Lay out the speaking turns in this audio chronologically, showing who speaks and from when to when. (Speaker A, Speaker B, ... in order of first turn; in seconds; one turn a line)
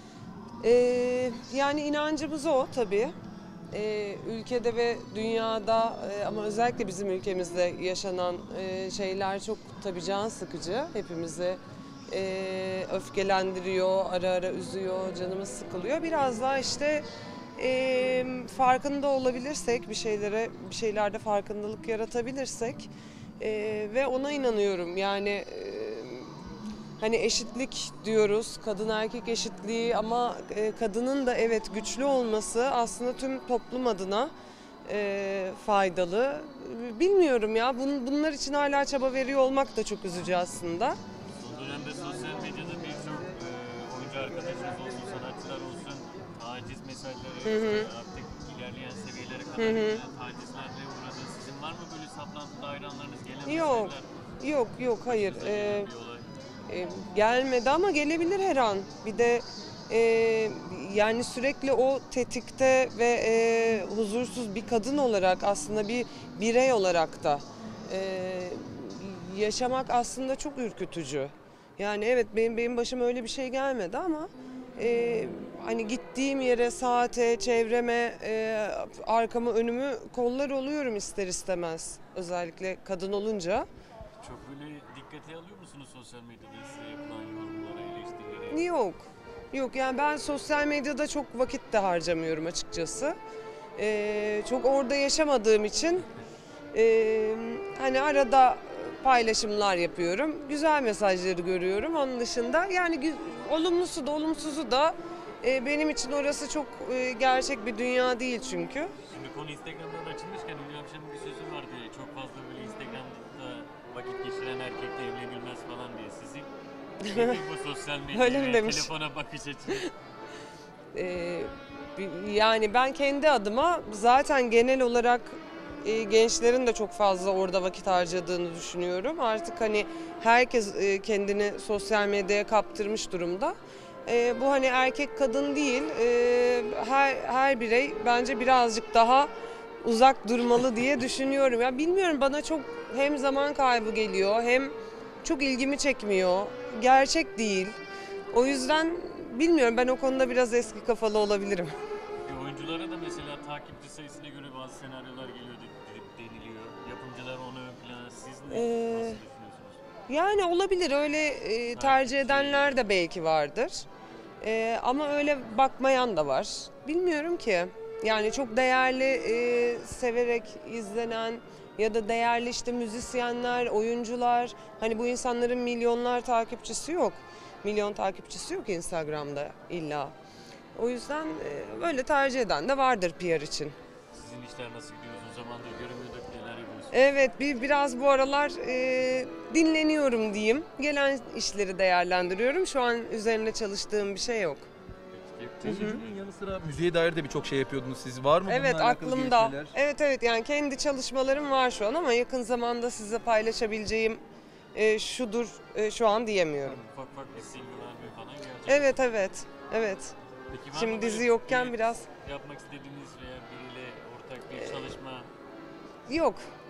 Speaker A: 0.6-3.1
Speaker A: 3.7-17.1
Speaker A: 17.6-26.4
Speaker A: 27.0-34.3
Speaker A: 34.9-41.0
Speaker B: 41.2-54.1
Speaker A: 47.4-47.9
Speaker A: 49.6-50.0
Speaker A: 53.5-55.9
Speaker B: 55.0-56.3
Speaker A: 56.7-83.7
Speaker B: 84.2-88.7
Speaker A: 88.5-93.2
Speaker A: 93.8-96.1
Speaker A: 96.7-108.9
Speaker B: 109.0-116.5
Speaker A: 117.0-117.4
Speaker B: 117.1-119.9
Speaker A: 118.1-118.9
Speaker A: 120.9-139.3
Speaker A: 139.8-147.8
Speaker A: 148.3-151.7
Speaker B: 152.2-159.8
Speaker A: 158.5-159.2
Speaker A: 160.1-163.8
Speaker B: 161.7-162.8
Speaker A: 164.4-180.1
Speaker A: 180.7-183.7
Speaker B: 184.1-187.0
Speaker A: 186.9-194.7
Speaker B: 195.1-196.1
Speaker C: 195.6-199.7
Speaker A: 195.6-196.0
Speaker A: 198.4-204.2
Speaker A: 204.7-206.8
Speaker B: 206.7-209.0
Speaker A: 208.7-210.1
Speaker B: 210.5-215.3
Speaker A: 210.7-212.1
Speaker A: 214.5-214.9
Speaker A: 216.1-216.4